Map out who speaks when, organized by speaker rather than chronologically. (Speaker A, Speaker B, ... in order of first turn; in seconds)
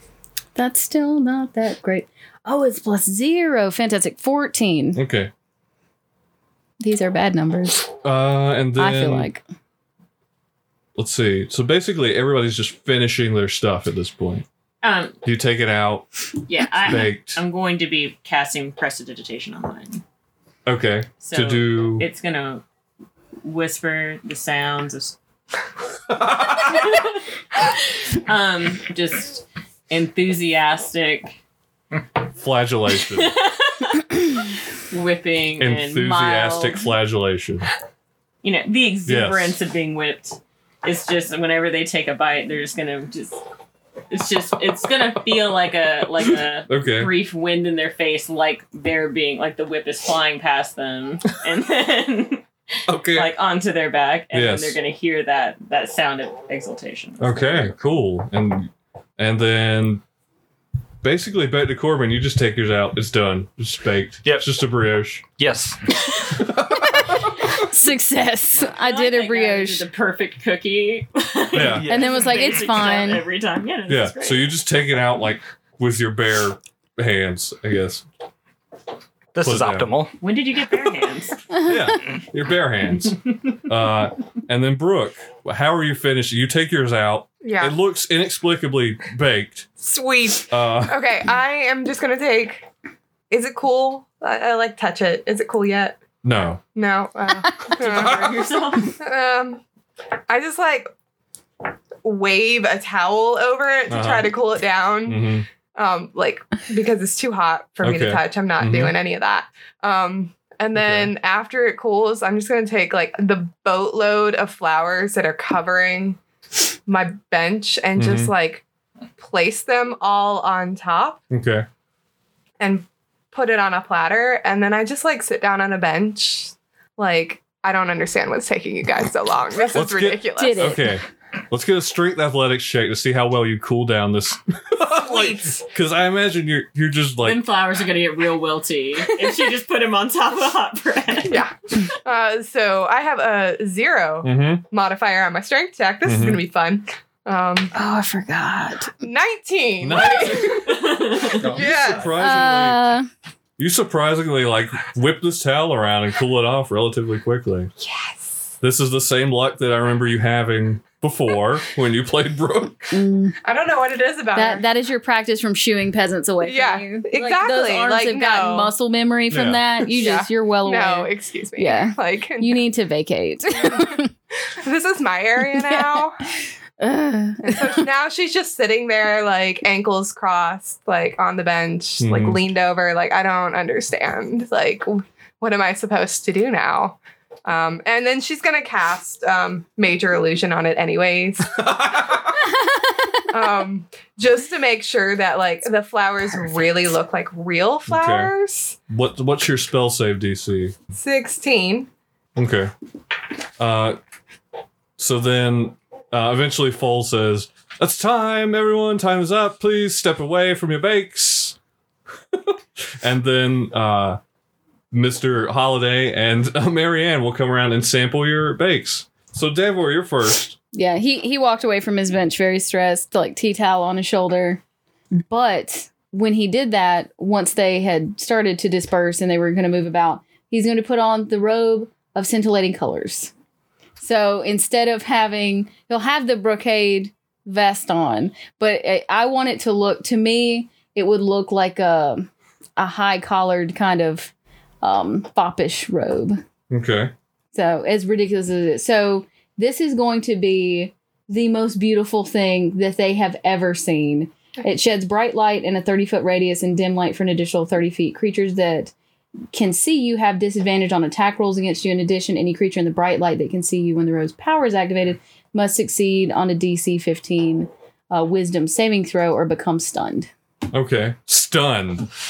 Speaker A: 0.5-5.0, 6.8-7.9, 8.8-9.4, 36.2-36.7, 67.5-69.8, 71.9-73.2, 81.5-81.9, 130.3-130.9, 147.7-148.9, 152.2-153.1, 162.9-163.4, 164.3-174.1, 175.6-176.0, 176.8-177.8, 192.8-193.2, 220.7-224.6, 225.3-233.3, 234.0-246.4, 247.5-258.9, 259.5-270.3
Speaker B: 4.9-5.3, 8.0-9.3, 10.9-14.4, 15.2-16.1, 16.8-17.4, 20.6-22.1, 32.4-33.4, 35.6-37.7, 39.0-39.5, 46.7-47.1, 52.9-53.3, 54.3-54.8, 57.2-60.0, 61.0-65.2, 66.5-66.9, 71.5-71.9, 73.9-78.0, 79.4-80.0, 81.6-89.7, 90.5-91.0, 96.2-96.6, 97.9-98.3, 103.9-104.3, 105.0-105.5, 107.8-109.0, 110.7-111.1, 118.0-118.3, 121.3-121.7, 129.7-137.4, 144.2-144.6, 146.0-146.4, 149.8-150.8, 151.4-152.9, 153.6-157.7, 158.6-162.8, 169.3-169.6, 182.0-182.4, 191.6-192.3, 197.9-198.3, 198.9-200.7, 202.3-202.7, 203.6-204.0, 205.0-211.6, 212.3-214.2, 214.9-220.6, 246.7-247.1, 270.7-272.1
Speaker C: 14.8-15.2, 16.5-20.0, 21.2-22.6, 23.4-25.1, 26.7-31.4, 33.0-34.4, 34.9-36.5, 38.4-43.4, 44.1-52.5, 53.0-57.7, 68.7-74.5, 80.2-81.4, 97.7-99.0, 137.2-141.5, 150.7-151.5
Speaker D: 65.3-65.9, 71.6-72.4, 79.3-80.1, 151.4-152.0
Speaker E: 87.4-87.7, 89.8-92.7, 93.3-96.0, 96.7-99.6, 100.3-100.9, 102.0-116.2, 116.8-118.6, 119.2-121.2, 122.6-130.8, 134.8-135.6, 141.2-147.7, 149.0-152.1, 157.8-158.5, 163.4-164.7, 166.4-168.7, 169.9-172.7, 173.6-174.0, 174.6-176.2, 177.4-192.1, 193.3-198.8, 200.9-201.9